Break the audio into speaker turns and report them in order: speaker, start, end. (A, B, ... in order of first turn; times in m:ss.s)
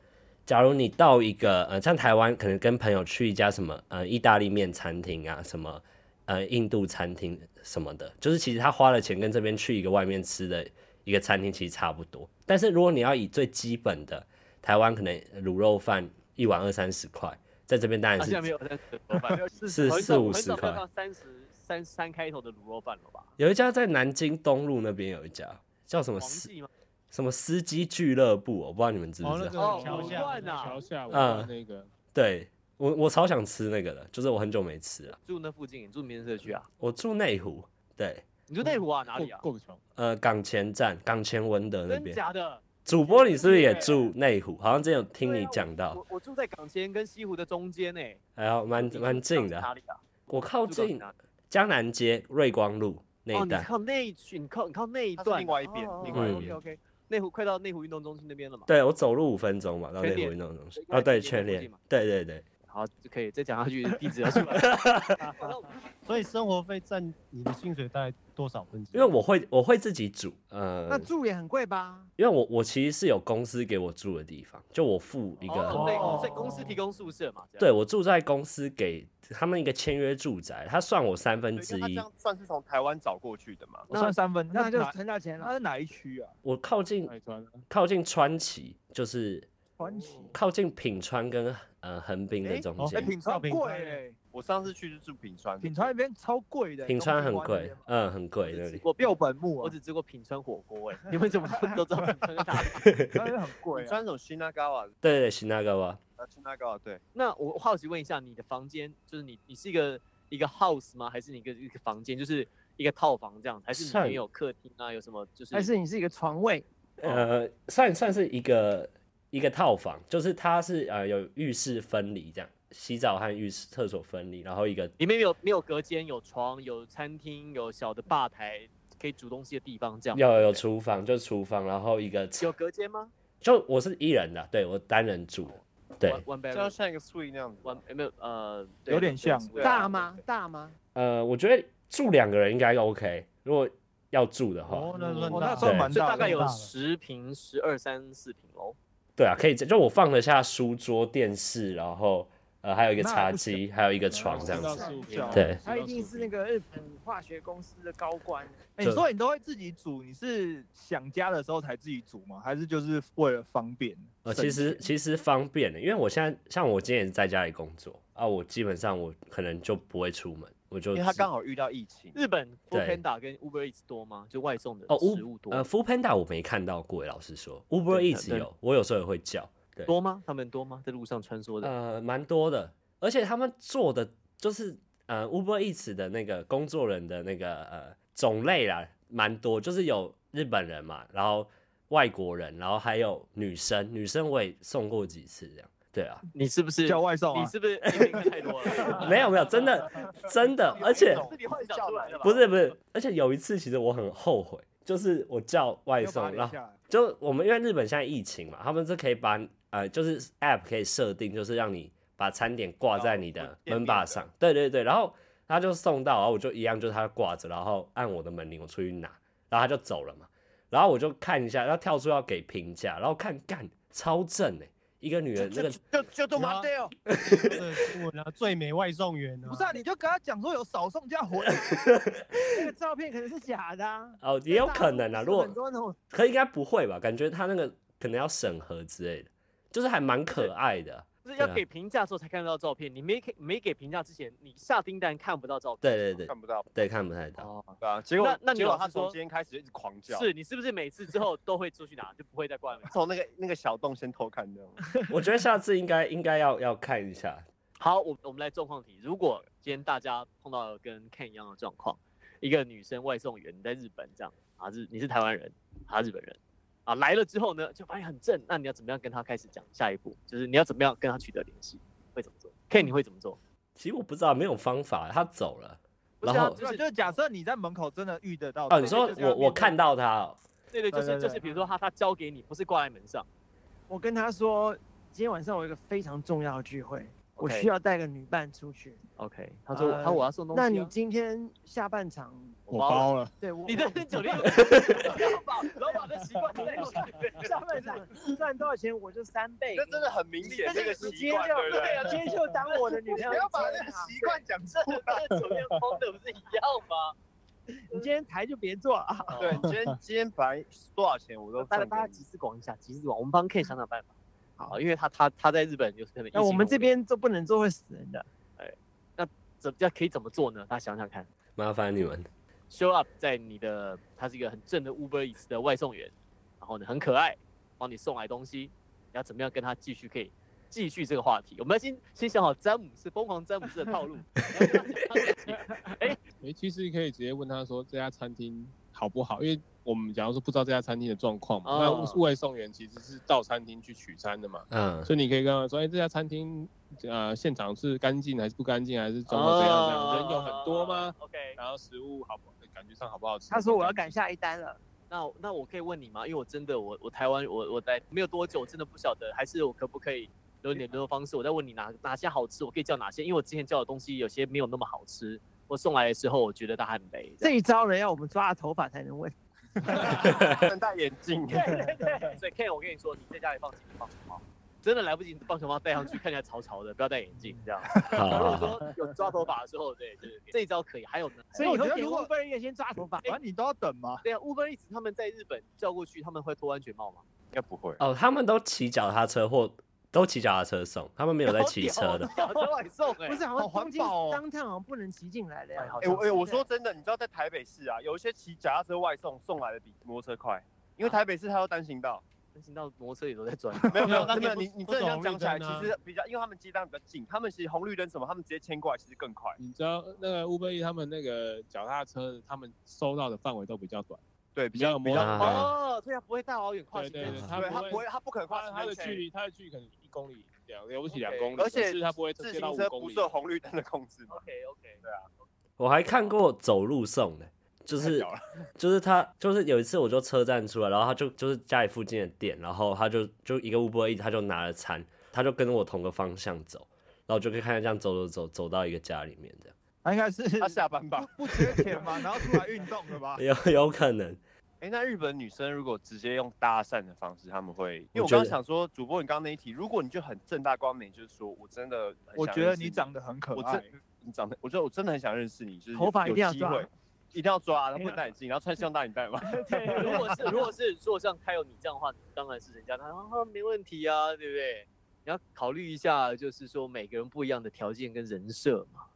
0:00.4-0:18.5 A
0:18.2-0:23.3 B
0:19.3-0:20.0 C
0:19.7-0:20.8 A
0:23.4-0:26.5 A
0:26.2-0:26.7 B
0:27.1-0:29.6 A
0:29.2-0:30.8 D
0:29.6-0:30.8 B
0:29.6-0:31.9 E
0:31.1-0:31.5 A
0:32.1-0:35.2 A
0:35.1-0:36.7 B
0:36.8-0:38.2 A
0:38.5-0:39.4 B
0:38.6-0:39.8 E
0:40.0-0:42.2 A
0:41.9-0:44.1 B
0:42.8-0:46.0 A
0:45.2-0:48.2 B
0:48.4-0:49.7 A
0:48.7-0:50.0 B
0:50.3-0:53.7 A
0:50.7-0:51.1 B
0:53.3-0:58.7 B
0:55.2-0:56.6 C
0:55.6-0:56.4 F
0:56.1-0:56.5 A
0:58.7-1:02.4 A
1:00.0-1:01.8 B
1:02.7-1:05.7 B
1:04.5-1:05.2 A
1:06.0-1:09.1 D
1:08.9-1:11.1 A
1:10.9-1:12.1 F
1:12.2-1:16.1 A
1:15.4-1:17.7 B
1:15.8-1:16.6 F
1:15.8-1:16.3 D
1:17.6-1:22.0 A
1:21.5-1:23.9 C
1:23.9-1:24.2 B
1:23.9-1:26.3 G
1:24.5-1:25.5 F
1:26.4-1:27.1 A
1:27.0-1:27.6 E
1:27.7-1:29.5 A
1:29.8-1:30.4 F
1:30.3-1:33.1 A
1:32.4-1:32.7 C
1:32.8-1:34.0 D
1:32.9-1:34.2 G
1:34.3-1:35.9 C
1:35.6-1:37.8 G
1:36.8-1:38.8 A
1:38.4-1:42.8 B
1:39.0-1:39.7 G
1:42.8-1:43.2 A
1:43.1-1:44.0 G
1:43.7-1:44.9 C
1:45.0-1:46.0 A
1:46.2-1:47.0 C
1:47.1-1:55.7 B
1:53.7-1:54.2 A
1:55.5-1:56.6 F
1:57.0-2:04.9 A
2:05.0-2:10.6 B
2:10.1-2:12.5 A
2:12.4-2:13.1 B
2:13.4-2:16.2 A
2:15.5-2:16.7 B
2:16.5-2:17.8 C
2:17.6-2:20.1 B
2:18.9-2:19.5 G
2:19.5-2:20.0 C
2:19.6-2:20.8 F
2:20.9-2:24.9 A
2:24.6-2:26.7 D
2:25.3-2:26.4 G
2:25.6-2:25.9 A
2:25.9-2:28.8 B
2:29.2-2:35.6 A
2:33.0-2:33.6 G
2:34.1-2:36.3 E
2:34.4-2:35.4 G
2:34.4-2:35.0 F
2:35.6-2:38.6 F
2:38.8-2:44.9 G
2:38.8-2:39.0 A
2:44.2-2:51.3 A
2:50.9-2:52.2 C
2:52.1-2:55.6 B
2:52.7-2:53.0 A
2:54.9-2:59.9 A
2:57.9-2:58.5 B
2:59.9-3:01.7 B
3:01.6-3:16.2 A
3:16.3-3:19.2 B
3:16.8-3:17.5 G
3:18.8-3:19.1 G
3:19.0-3:21.2 A
3:20.6-3:22.4 C
3:20.7-3:22.4 B
3:22.2-3:45.8 A
3:26.0-3:26.8 G
3:32.9-3:34.2 C
3:45.4-3:46.9 C
3:46.3-3:49.8 D
3:47.1-3:47.9 A
3:49.4-3:52.0 G
3:51.6-3:52.4 A
3:52.4-3:56.0 F
3:54.2-3:55.6 A
3:56.1-4:01.6 A
4:01.2-4:06.2 B
4:05.8-4:07.5 A
4:06.2-4:06.7 C
4:07.4-4:09.2 B
4:07.8-4:10.3 C
4:10.1-4:12.9 B
4:12.8-4:14.8 C
4:15.1-4:17.4 A
4:17.8-4:33.4 B
4:33.8-4:36.6 A
4:36.2-4:36.9 B
4:36.5-4:39.7 G
4:38.7-4:40.4 A
4:38.8-4:39.2 B
4:40.7-4:43.3 B
4:40.9-4:41.4 G
4:43.9-4:49.0 F
4:47.4-4:47.7 B
4:49.2-4:50.9 B
4:49.7-4:52.6 F
4:52.7-4:53.1 B
4:52.7-4:53.3 E
4:53.4-4:54.5 F
4:53.6-4:57.6 B
4:57.4-5:04.1 F
4:59.7-5:02.1 C
5:00.4-5:03.6 B
5:03.1-5:04.7 C
5:04.2-5:07.1 B
5:07.7-5:09.7 F
5:09.4-5:12.2 C
5:11.6-5:14.1 B
5:14.7-5:16.9 B
5:16.3-5:18.2 F
5:18.6-5:21.3 B
5:21.6-5:22.3 A
5:22.7-5:36.2 B
5:36.4-5:54.2 E
5:41.6-5:42.2 B
5:44.7-5:45.1 A
5:49.3-5:51.6 B
5:53.5-5:54.8 F
5:55.1-6:07.5 B
6:07.4-6:09.3 F
6:09.9-6:10.2 F
6:09.9-6:11.8 C
6:11.5-6:21.8 B
6:11.8-6:12.4 F
6:18.0-6:18.3 G
6:18.1-6:18.8 A
6:21.5-6:23.3 F
6:21.6-6:22.3 G
6:23.2-6:24.2 G
6:24.2-6:27.2 B
6:27.5-6:28.0 C
6:28.0-6:32.3 A
6:31.4-6:33.4 B
6:33.2-6:36.6 F
6:33.6-6:34.4 G
6:35.8-6:36.5 B
6:36.0-6:42.2 C
6:42.5-6:44.5 B
6:43.9-6:49.6 C
6:44.0-6:45.9 D
6:49.6-6:54.2 E
6:54.5-6:55.7 C
6:54.7-6:55.6 E
6:55.2-6:55.7 A
6:55.3-6:57.9 B
6:56.9-7:03.4 E
6:57.2-6:57.6 A
6:57.5-6:59.2 C
7:01.1-7:01.6 B
7:01.5-7:04.4 C
7:04.3-7:05.0 B
7:05.8-7:19.7 A
7:07.9-7:08.4 C
7:20.0-7:23.4 G
7:20.6-7:21.8 C
7:23.4-7:24.4 A
7:24.8-7:39.6 C
7:28.1-7:28.6 A
7:32.3-7:33.9 G
7:35.9-7:36.9 F
7:39.4-7:40.7 F
7:39.8-7:49.0 B